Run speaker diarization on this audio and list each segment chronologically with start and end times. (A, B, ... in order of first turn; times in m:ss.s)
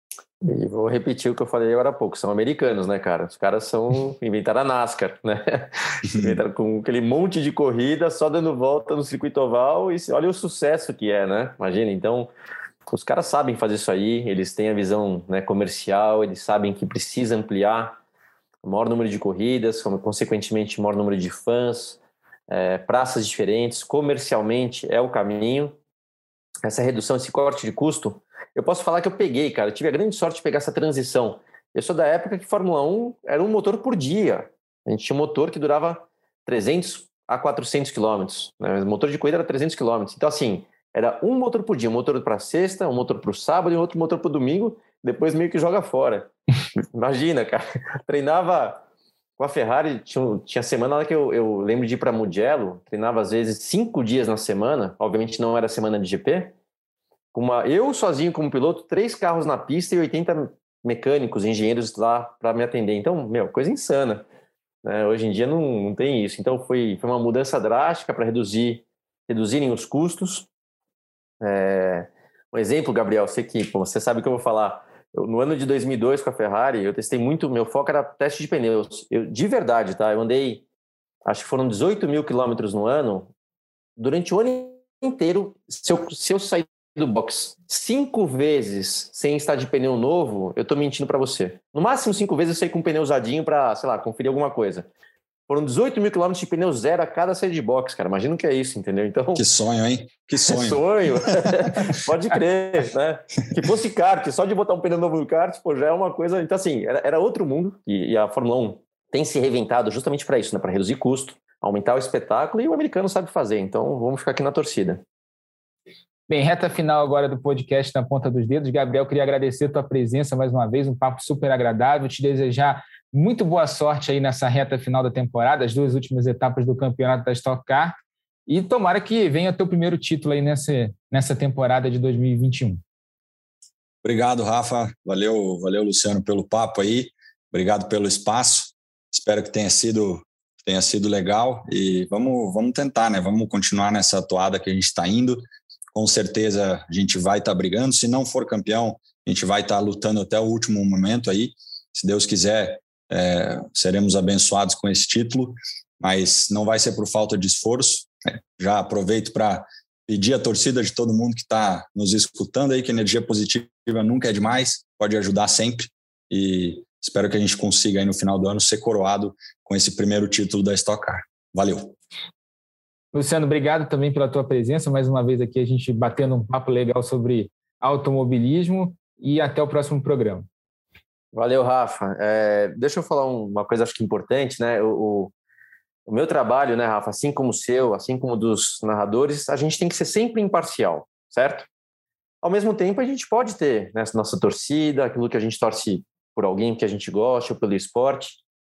0:00.4-0:12.3 A
0:12.9-0:18.0 A
0:18.6-0:25.7 A
0:26.6-0:46.3 A
0:46.9-0:48.8 A
0:49.4-0:56.5 A
0:57.3-1:04.2 A
1:04.8-1:10.5 A
1:11.4-1:20.6 A
1:21.2-1:23.3 A
1:24.0-1:34.9 A
1:35.5-1:39.4 A
1:39.3-1:40.8 B
1:40.4-1:55.0 A
1:41.4-1:41.7 B
1:56.3-2:08.0 C
2:08.5-2:12.8 C
2:14.0-2:51.9 B
2:53.1-3:00.5 C
3:01.3-3:05.3 A
3:06.1-3:11.7 A
3:12.4-3:18.4 A